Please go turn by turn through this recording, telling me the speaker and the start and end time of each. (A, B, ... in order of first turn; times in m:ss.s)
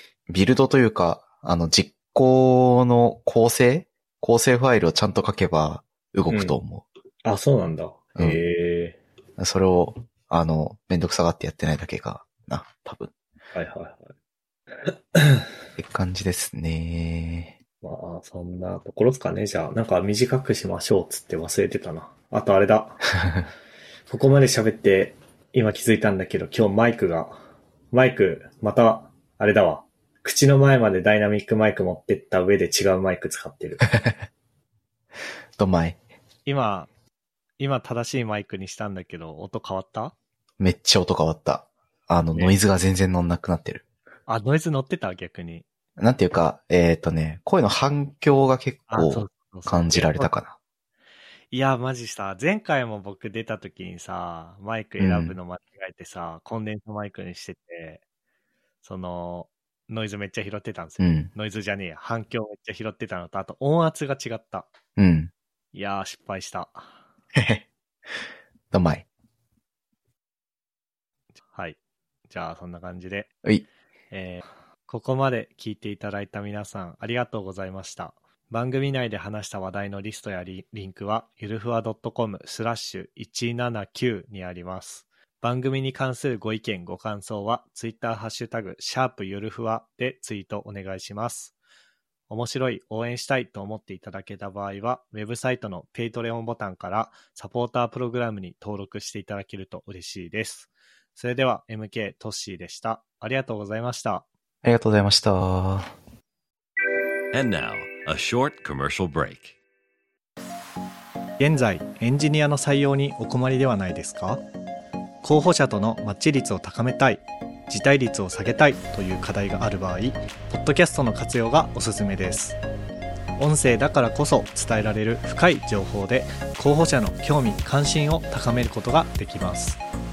0:00.3-0:06.8 A
0:06.3-0:06.6 B
0:07.2-0:09.0 B
0:08.2-0:08.4 A
0:09.4-0:13.1 A
0:13.5-0:14.1 B
0:14.7-0:15.5 B
0:15.8-0:17.6 A
0:17.8-0:23.0 B
0:24.1-0:27.4 B
0:27.9-0:33.9 B
0:35.6-0:36.0 A
0:36.4-0:36.9 B
0:37.6-0:40.1 B
0:40.6-0:43.8 A
0:44.3-0:45.7 B
0:46.0-0:50.6 A
0:48.9-0:50.3 B
0:51.5-0:58.0 B
0:55.0-0:55.4 A
0:58.8-1:04.7 B
1:01.0-1:01.3 A
1:05.0-1:05.3 A
1:05.7-1:06.9 B
1:07.3-1:07.6 A
1:08.7-1:09.0 A
1:11.5-1:11.8 B
1:12.3-1:13.3 B
1:14.1-1:31.5 B
1:32.3-1:44.2 B
1:44.6-1:45.9 A
1:47.3-1:49.6 C
1:51.4-1:54.4 B
1:55.2-2:02.6 B
2:03.4-2:09.8 B